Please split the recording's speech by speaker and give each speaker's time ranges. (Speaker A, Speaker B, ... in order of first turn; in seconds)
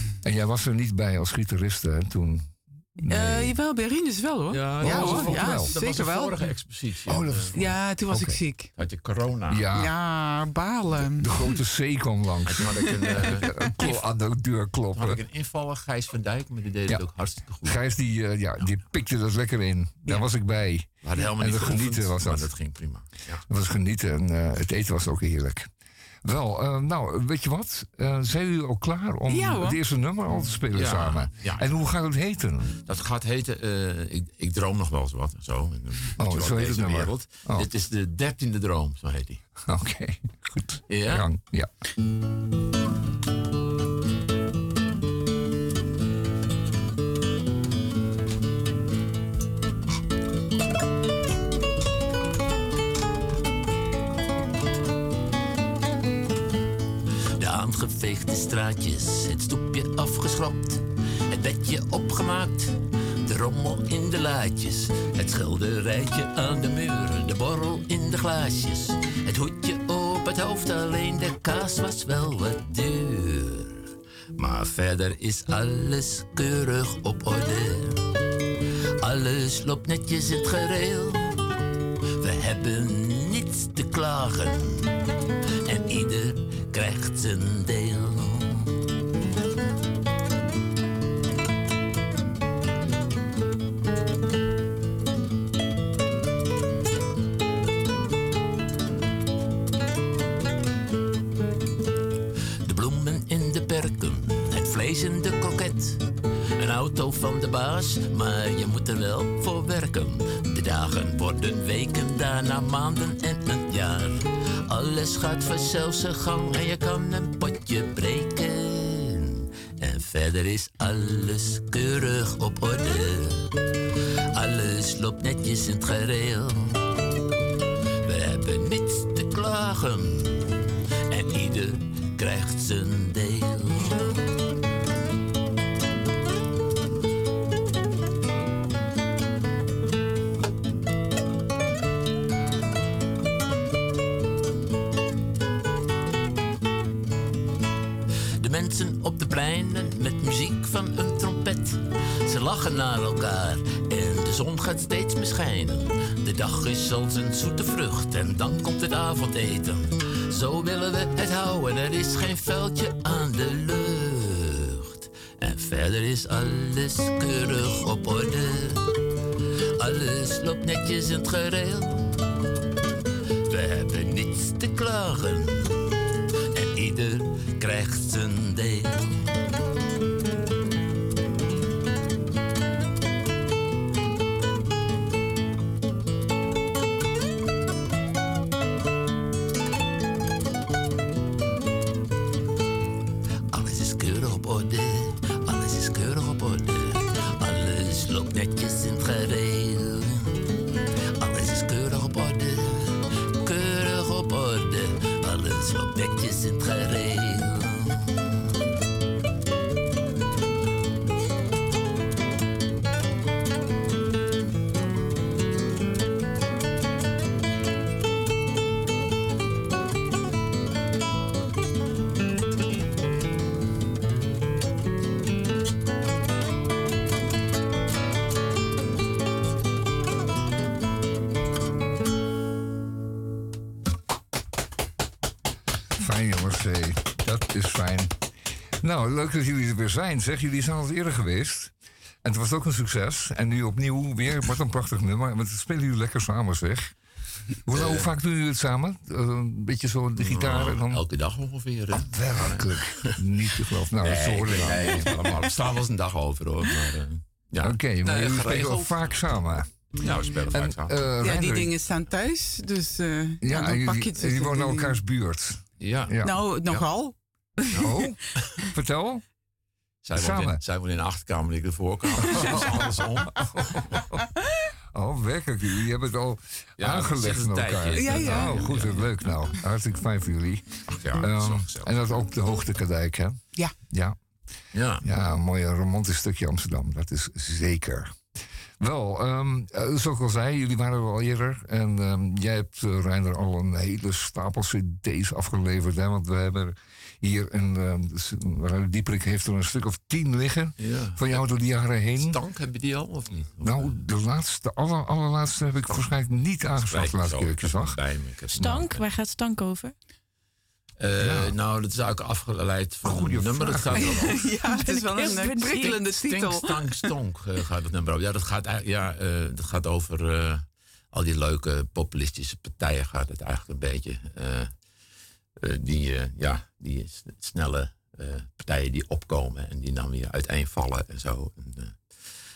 Speaker A: 0.2-3.6, 4.8-5.7, 7.1-8.4, 9.5-9.9, 11.0-15.2, 17.6-22.5, 23.4-25.7, 26.2-32.7, 36.2-37.7, 39.6-41.7, 236.0-238.1, 238.8-241.7, 242.2-246.9, 247.6-251.0, 251.9-255.4, 257.6-261.8, 263.4-266.8, 267.7-269.2, 270.1-270.6, 272.2-274.3, 274.9-284.2, 285.0-288.2, 288.8-302.4, 303.6-308.0, 308.5-308.8, 311.2-311.6, 313.0-314.3
Speaker B: 3.0-6.6, 7.5-8.7, 9.7-11.6, 29.3-29.8, 261.2-265.0, 266.2-268.1, 277.9-279.0, 313.9-317.1
Speaker C: 4.5-7.8, 8.7-9.7, 12.4-14.1, 14.9-17.8, 21.0-23.4, 30.7-31.8, 32.8-39.4, 40.9-41.3, 247.7-248.1, 250.2-253.2, 254.0-259.4, 260.0-261.1, 265.8-266.2, 270.0-274.0, 276.8-279.0, 280.9-281.9, 284.7-285.1, 300.8-301.4, 302.1-304.0, 306.7-309.0, 311.0-314.5, 316.1-324.7, 325.6-332.2
Speaker D: 57.4-78.0, 79.0-81.4, 82.2-84.8, 85.6-88.7, 102.6-106.0, 106.5-123.5, 124.3-126.8, 128.0-130.5, 131.1-134.2, 148.4-168.9, 169.8-172.2, 173.5-175.8, 176.5-179.1, 193.5-200.4, 201.2-208.4
Speaker E: 308.5-309.9, 314.7-316.1